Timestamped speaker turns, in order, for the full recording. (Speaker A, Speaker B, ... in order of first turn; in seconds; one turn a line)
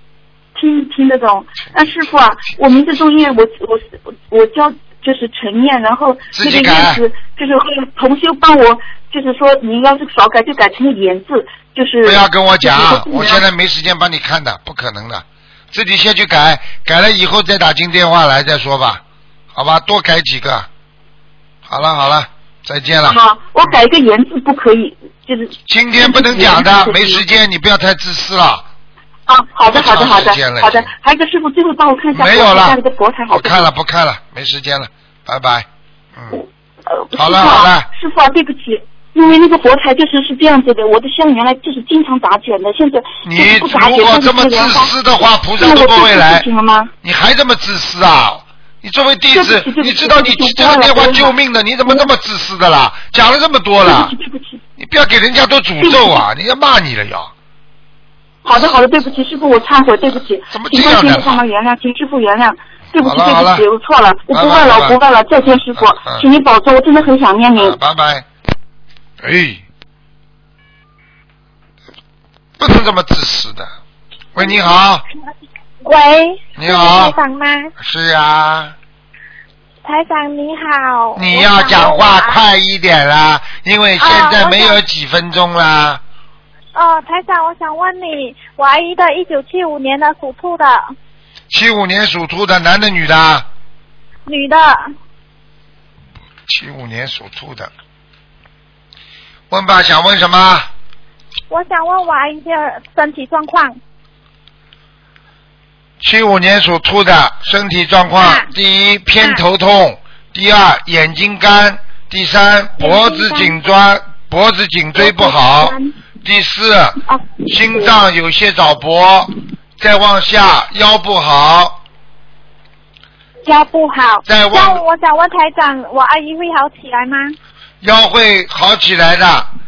Speaker A: 0.6-13.4
Speaker B: 6.3-7.0
Speaker B: 12.0-19.0
Speaker B: 19.5-20.7
Speaker B: 21.7-23.8
Speaker A: 23.1-27.2
Speaker B: 25.7-28.7
Speaker A: 29.3-33.7
Speaker B: 29.7-30.9
Speaker B: 32.1-32.8
Speaker B: 33.3-36.4
Speaker A: 36.3-44.9
Speaker B: 37.1-37.9
Speaker B: 43.2-46.5
Speaker A: 45.6-46.9
Speaker B: 47.0-54.1
Speaker A: 49.3-51.3
Speaker A: 53.8-54.6
Speaker B: 54.8-57.3
Speaker A: 55.8-56.2
Speaker A: 58.4-67.8
Speaker B: 60.5-61.4
Speaker B: 63.0-63.7
Speaker B: 64.3-66.3
Speaker B: 67.6-68.3
Speaker B: 69.2-69.6
Speaker B: 72.6-73.7
Speaker B: 74.3-75.0
Speaker C: 75.8-77.7
Speaker B: 76.6-77.2
Speaker B: 77.8-78.8
Speaker C: 79.8-82.4
Speaker B: 81.2-86.0
Speaker C: 84.0-84.8
Speaker C: 86.7-91.0
Speaker B: 91.5-93.5
Speaker C: 94.3-94.9
Speaker B: 96.5-97.7
Speaker B: 99.5-100.7
Speaker C: 101.5-103.8
Speaker B: 106.0-121.8
Speaker C: 108.2-108.5
Speaker C: 109.2-109.4
Speaker C: 112.8-113.6
Speaker C: 115.0-116.0
Speaker C: 117.1-117.9
Speaker C: 123.5-127.4
Speaker B: 124.3-124.8
Speaker B: 127.8-129.5